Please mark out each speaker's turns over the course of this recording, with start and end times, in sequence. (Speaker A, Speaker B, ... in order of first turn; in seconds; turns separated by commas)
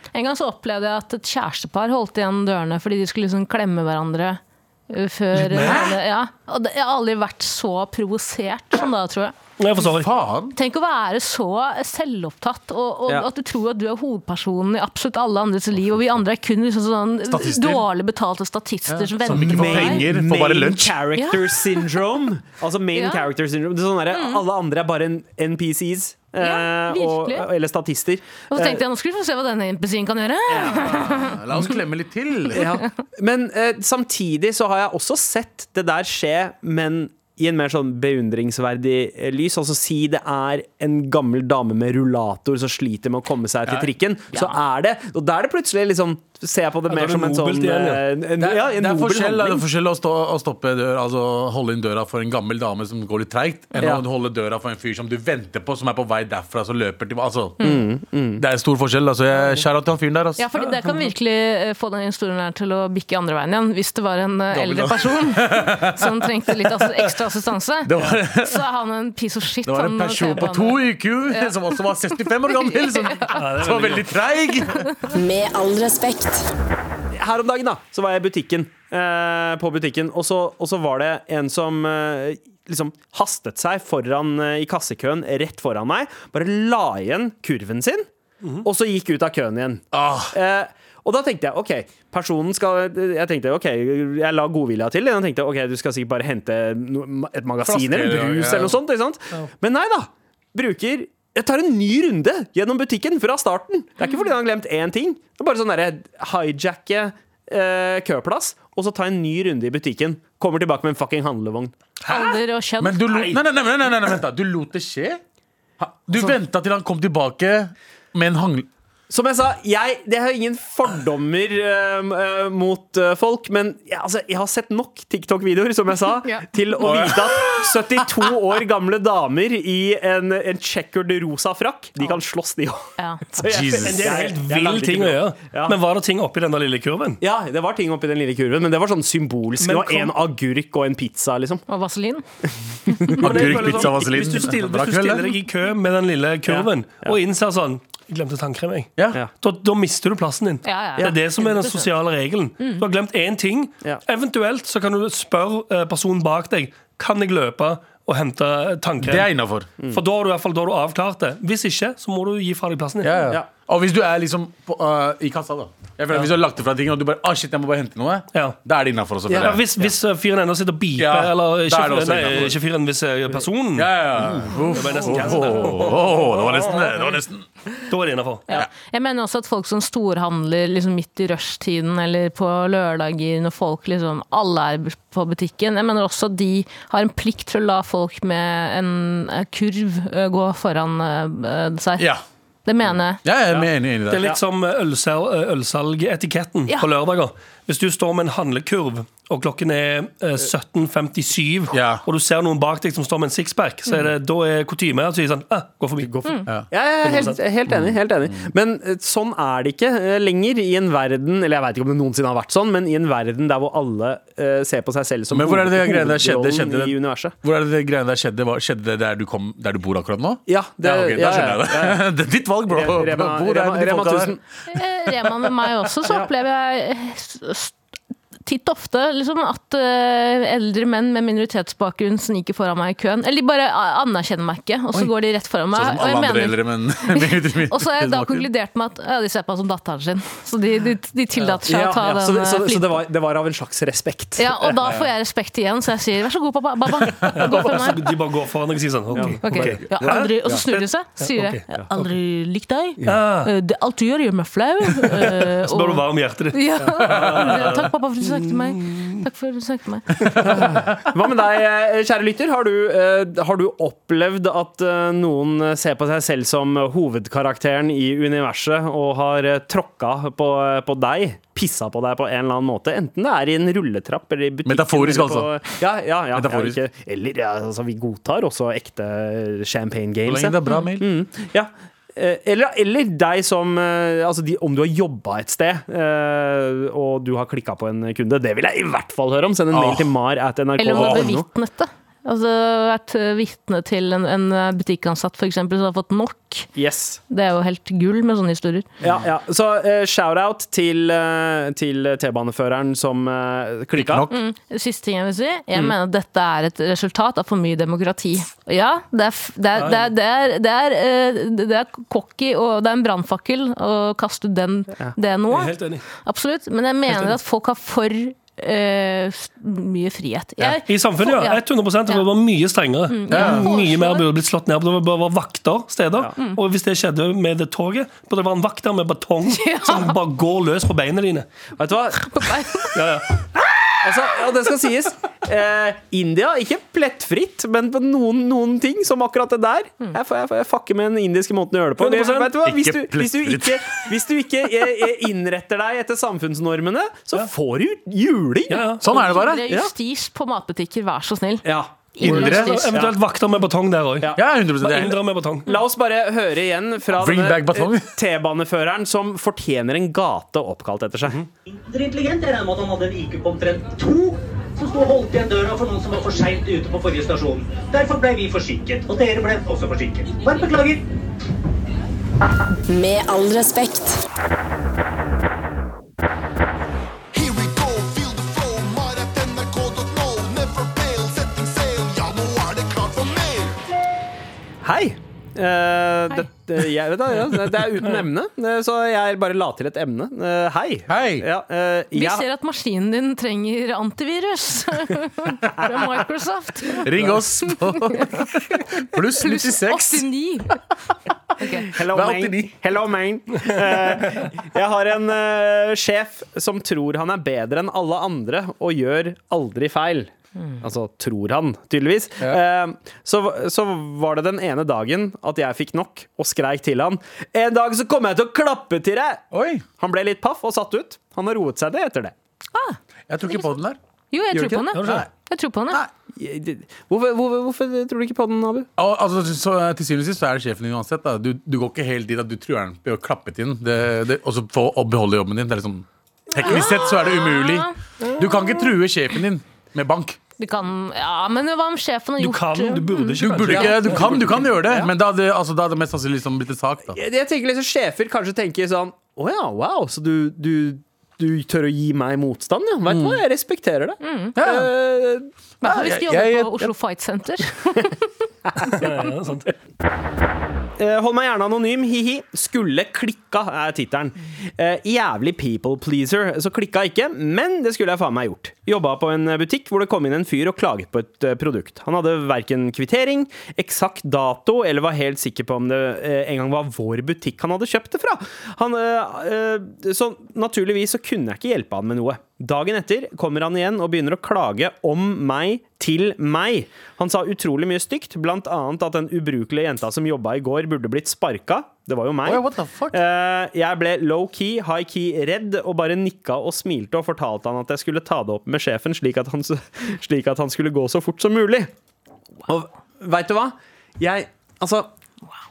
Speaker A: 0.1-9.3, Speaker B: 5.3-5.8, Speaker C: 5.5-6.0, Speaker B: 9.6-10.1, Speaker C: 9.8-10.5, Speaker A: 10.5-20.1, Speaker C: 17.2-17.8, Speaker C: 18.9-21.0, Speaker D: 19.3-28.8, Speaker A: 21.2-21.4, Speaker A: 22.9-23.3, Speaker A: 24.1-24.4, Speaker A: 26.4-27.5, Speaker A: 28.5-31.4, Speaker D: 30.5-31.2, Speaker C: 30.7-32.8, Speaker D: 32.5-49.6, Speaker B: 46.9-48.1, Speaker C: 48.4-57.6, Speaker D: 53.8-54.0, Speaker D: 57.6-58.4, Speaker C: 58.4-60.4, Speaker A: 60.4-71.5, Speaker C: 64.5-66.7, Speaker C: 67.8-68.6, Speaker C: 69.6-74.8, Speaker A: 72.7-73.3, Speaker B: 73.3-74.1, Speaker E: 75.1-76.5, Speaker D: 77.1-88.1, Speaker D: 88.6-111.7, Speaker C: 89.9-90.3, Speaker C: 97.6-98.8, Speaker A: 104.0-104.3, Speaker A: 112.0-113.3, Speaker C: 112.8-115.2, Speaker C: 115.8-118.7, Speaker D: 119.1-135.8, Speaker A: 133.0-133.2, Speaker C: 133.4-134.2, Speaker B: 133.8-137.2, Speaker D: 137.2-141.6, Speaker B: 139.6-140.2, Speaker A: 141.7-142.2, Speaker D: 142.9-143.5, Speaker B: 143.1-159.3, Speaker C: 143.2-145.3, Speaker D: 146.5-147.2, Speaker A: 150.6-151.8, Speaker C: 159.0-159.7, Speaker B: 159.9-163.2, Speaker C: 163.0-169.9, Speaker D: 169.3-169.5, Speaker B: 169.3-173.9, Speaker C: 170.9-172.6, Speaker C: 173.7-177.4, Speaker B: 174.7-176.1, Speaker B: 177.9-178.4, Speaker A: 178.5-192.1, Speaker A: 192.7-193.2, Speaker C: 193.2-194.3, Speaker B: 194.1-206.1, Speaker C: 201.7-202.0, Speaker D: 206.0-217.3, Speaker B: 207.0-207.4, Speaker C: 207.7-208.5, Speaker C: 215.3-224.4, Speaker D: 220.5-222.0, Speaker D: 222.7-224.4, Speaker A: 224.7-227.8, Speaker A: 228.4-243.0, Speaker C: 235.7-238.5, Speaker D: 241.7-244.5, Speaker A: 244.4-248.1, Speaker C: 247.0-247.6, Speaker B: 247.3-249.9, Speaker D: 249.1-250.6, Speaker A: 249.4-260.4, Speaker C: 250.0-250.3, Speaker B: 250.7-251.6, Speaker B: 253.1-253.5, Speaker B: 255.0-259.2, Speaker C: 257.0-257.7, Speaker C: 260.2-260.9, Speaker D: 260.4-291.4, Speaker C: 274.6-275.5, Speaker C: 276.3-276.8, Speaker C: 280.2-281.1, Speaker C: 289.7-290.1, Speaker A: 290.8-296.7, Speaker C: 290.9-291.3, Speaker D: 296.7-297.2, Speaker A: 297.3-298.9, Speaker D: 299.0-304.2, Speaker C: 303.9-304.4, Speaker A: 304.3-322.2, Speaker B: 315.5-316.0, Speaker B: 320.8-331.5, Speaker A: 323.1-324.2, Speaker C: 323.3-323.7, Speaker A: 329.5-330.1, Speaker D: 331.8-332.9, Speaker A: 332.2-332.9, Speaker B: 332.9-333.3, Speaker D: 334.0-348.9, Speaker B: 342.0-342.5, Speaker C: 342.6-344.1, Speaker B: 348.7-349.0, Speaker C: 349.0-349.7, Speaker A: 349.1-352.9, Speaker D: 351.6-353.1, Speaker C: 352.2-352.8, Speaker B: 352.2-355.7, Speaker C: 354.3-355.2, Speaker D: 355.7-361.4, Speaker C: 357.1-358.1, Speaker F: 361.7-371.0, Speaker E: 372.9-374.2, Speaker G: 377.3-383.8, Speaker D: 384.8-392.4, Speaker C: 391.1-391.4, Speaker A: 392.1-397.1, Speaker C: 397.0-400.3, Speaker A: 397.9-398.4, Speaker A: 399.4-400.8, Speaker A: 401.6-401.9, Speaker D: 401.9-419.4, Speaker C: 401.9-402.8, Speaker C: 419.5-419.9, Speaker D: 420.0-422.3, Speaker C: 423.3-424.0, Speaker A: 424.3-426.0, Speaker D: 424.5-424.9, Speaker B: 424.9-425.2, Speaker C: 425.0-425.3, Speaker D: 426.3-428.9, Speaker C: 429.0-440.4, Speaker A: 436.6-437.9, Speaker A: 440.6-443.4, Speaker B: 442.4-444.6, Speaker C: 443.4-447.2, Speaker D: 447.1-455.5, Speaker C: 453.1-453.4, Speaker A: 454.2-454.6, Speaker C: 454.6-454.9, Speaker A: 455.8-458.3, Speaker C: 455.8-456.9, Speaker D: 458.8-459.1, Speaker B: 458.9-459.7, Speaker D: 461.0-501.9, Speaker C: 492.4-493.2, Speaker D: 502.7-505.1